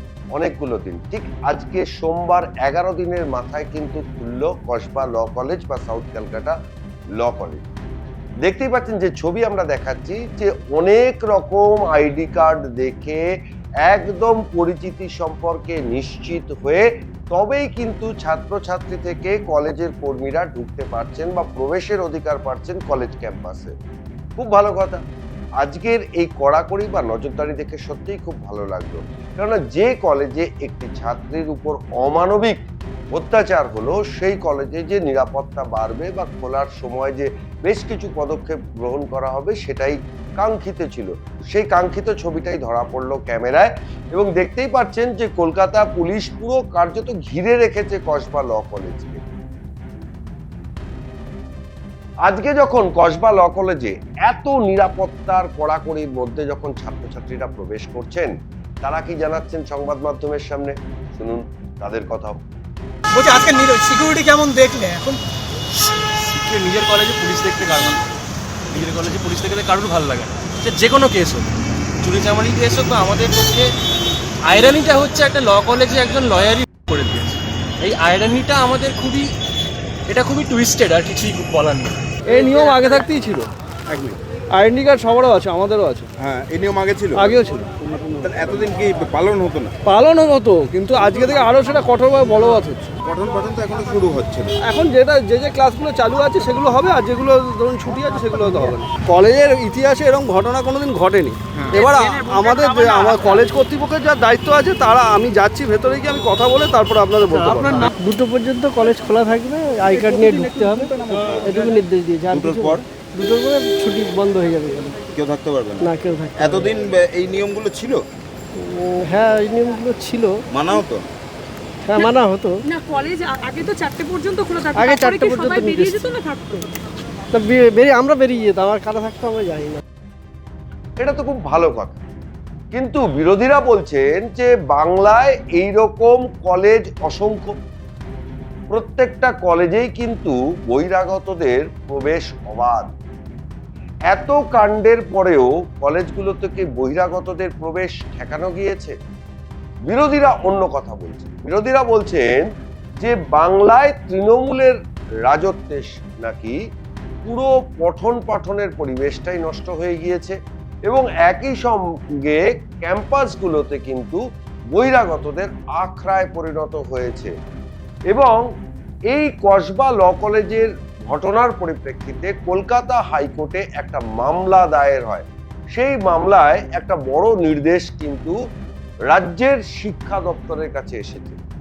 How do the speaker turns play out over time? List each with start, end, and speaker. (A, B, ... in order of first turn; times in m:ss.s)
0:00.3-0:06.6 A
0:07.2-0:07.6 A
0:08.4-0:13.2 A
0:13.9-0:23.7 A
0:24.4-0:25.0 A
0:25.6-0:32.6 A
0:33.1-0:49.2 A
0:52.3-1:02.4 A
1:03.2-1:05.2 B
1:03.3-1:03.8 C
1:06.3-1:08.1 C
1:08.7-1:11.5 C
1:12.0-1:13.7 C
1:14.4-1:19.3 C
1:20.1-1:22.8 C
1:22.3-1:23.5 D
1:23.9-1:24.2 E
1:24.6-1:26.1 D
1:26.2-1:27.4 E
1:27.2-1:27.7 D
1:28.2-1:29.7 E
1:29.9-1:32.9 D
1:33.0-1:34.5 E
1:34.6-1:47.9 D
1:41.7-1:43.4 C
1:47.4-1:47.9 C
1:47.9-1:55.0 F
1:51.2-1:51.6 E
1:52.3-1:52.8 E
1:55.1-1:58.0 E
1:55.8-1:56.6 F
1:58.6-2:00.4 F
2:00.5-2:01.1 E
2:01.9-2:02.6 F
2:02.7-2:06.6 G
2:04.8-2:06.1 F
2:07.3-2:09.8 F
2:11.0-2:12.0 A
2:12.7-2:17.5 A
2:18.7-2:22.9 A
2:24.1-2:29.0 A
2:29.9-2:32.5 A
2:33.0-2:34.8 A
2:35.3-2:36.6 A
2:37.2-2:40.4 A
2:40.9-2:44.2 A
2:44.7-2:47.3 A
2:48.1-2:48.4 A
2:49.1-2:58.4 A
2:59.1-3:01.4 A